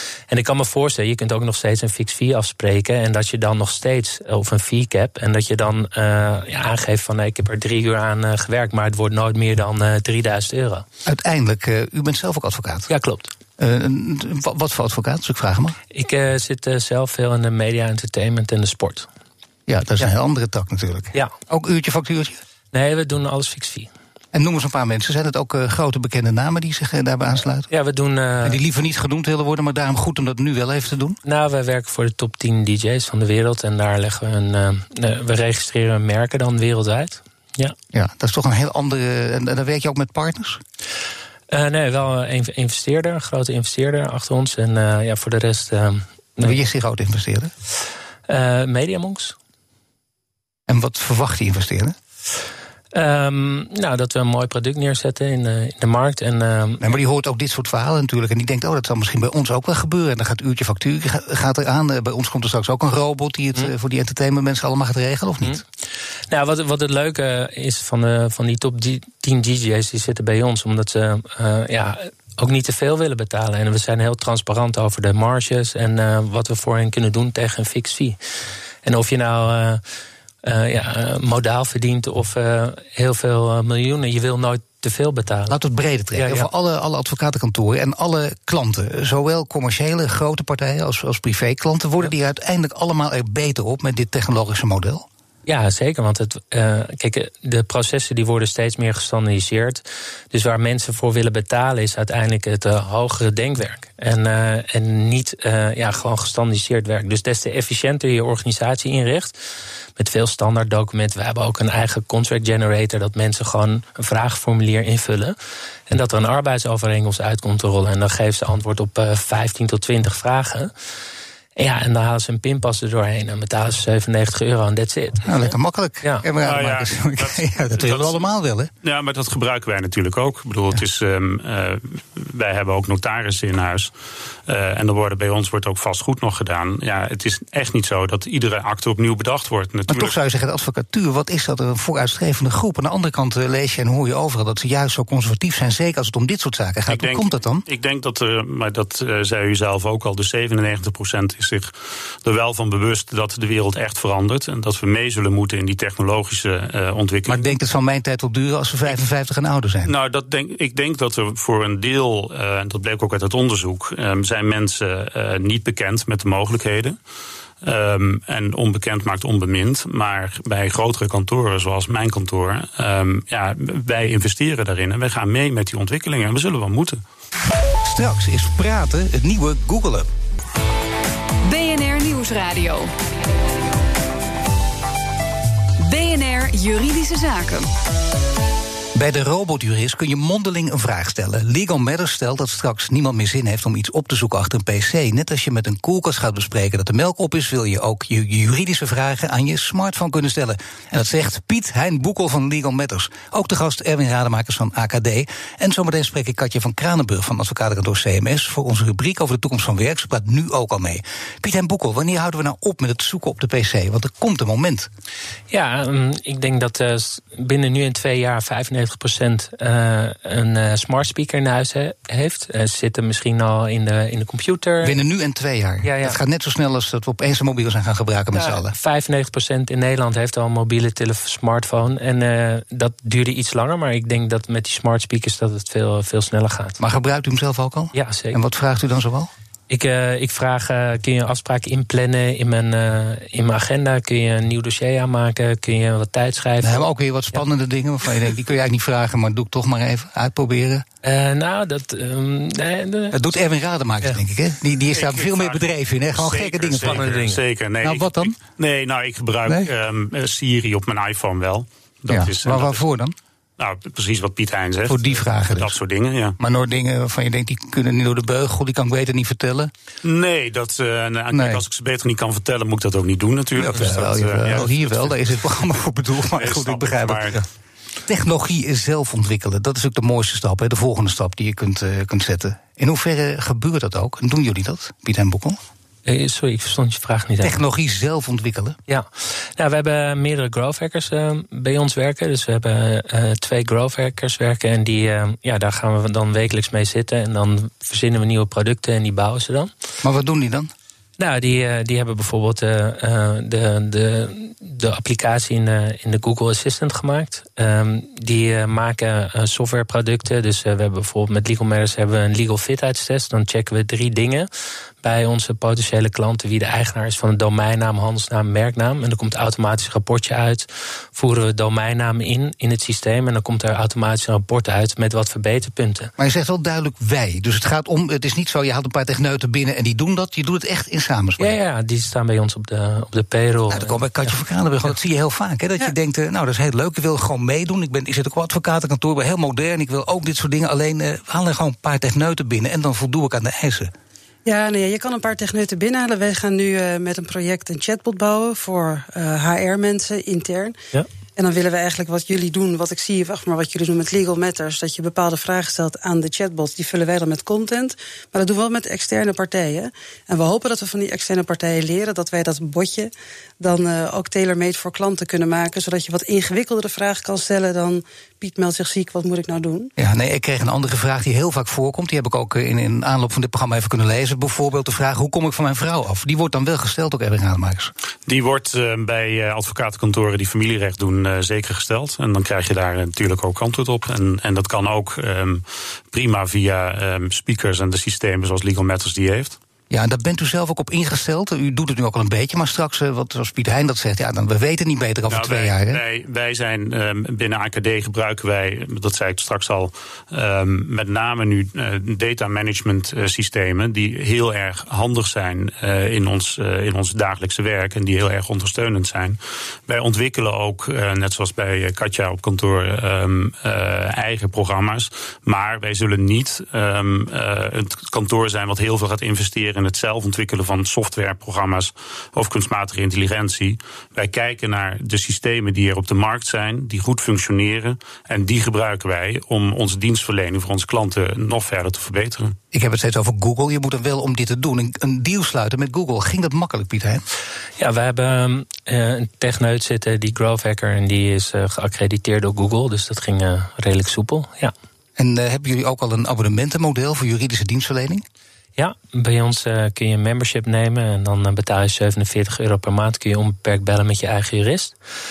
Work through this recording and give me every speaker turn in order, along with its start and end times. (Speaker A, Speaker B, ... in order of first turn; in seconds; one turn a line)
Speaker A: 0.3-10.8
Speaker B: 11.0-12.9
Speaker A: 12.9-13.3
Speaker B: 13.6-15.8
Speaker A: 15.9-19.1
Speaker B: 19.7-22.4
Speaker A: 22.7-23.9
Speaker B: 24.3-27.7
Speaker A: 27.7-28.6
Speaker B: 28.4-31.2
Speaker A: 31.2-37.7
Speaker B: 37.9-40.6
Speaker A: 41.5-46.6
Speaker B: 46.4-47.5
Speaker A: 48.3-49.4
Speaker B: 50.7-52.0
Speaker A: 52.9-56.9
Speaker B: 56.8-65.6
Speaker A: 66.3-78.2
Speaker A: 78.8-79.8
Speaker A: 80.4-85.5
Speaker B: 85.5-95.0
Speaker A: 86.1-86.5
Speaker A: 95.5-109.4
Speaker A: 110.0-115.3
Speaker A: 115.9-120.7
Speaker A: 121.5-126.2
Speaker B: 125.2-128.7
Speaker C: 126.4-128.2
Speaker C: 128.8-133.9
Speaker C: 134.5-140.1
Speaker B: 139.9-147.6
Speaker C: 146.9-151.7
Speaker C: 152.2-157.5
Speaker B: 157.3-159.9
Speaker C: 159.8-167.0
Speaker C: 167.6-177.0
Speaker B: 177.8-180.1
Speaker D: 181.4-182.9
Speaker D: 185.8-187.7
Speaker B: 188.9-214.9
Speaker A: 215.5-225.0
Speaker B: 224.8-228.7
Speaker A: 225.8-226.2
Speaker A: 228.3-236.8
Speaker B: 236.8-239.3
Speaker A: 237.9-238.4
Speaker A: 239.7-247.4
Speaker B: 246.6-250.8
Speaker A: 251.0-253.2
Speaker B: 253.1-257.1
Speaker C: 254.9-262.8
Speaker A: 256.8-257.4
Speaker B: 257.8-258.3
Speaker B: 262.1-263.1
Speaker C: 263.6-266.4
Speaker B: 264.9-265.8
Speaker B: 266.4-269.7
Speaker C: 270.0-275.2
Speaker B: 271.3-271.6
Speaker B: 273.6-277.4
Speaker C: 276.3-277.4
Speaker B: 278.1-285.6
Speaker A: 286.1-287.6
Speaker B: 287.4-288.8
Speaker A: 288.9-299.7
Speaker B: 300.0-300.7
Speaker A: 301.2-314.5
Speaker A: 315.0-326.1
Speaker B: 326.2-331.5
Speaker A: 331.4-334.3
Speaker B: 333.7-343.9
Speaker E: 344.4-350.8
Speaker E: 351.4-369.9
Speaker B: 370.0-377.9
Speaker C: 378.3-389.6
Speaker B: 389.9-396.0
Speaker C: 395.3-432.6
Speaker B: 432.7-437.2
Speaker A: 437.8-444.7
Speaker B: 445.2-448.2
Speaker A: 448.8-454.9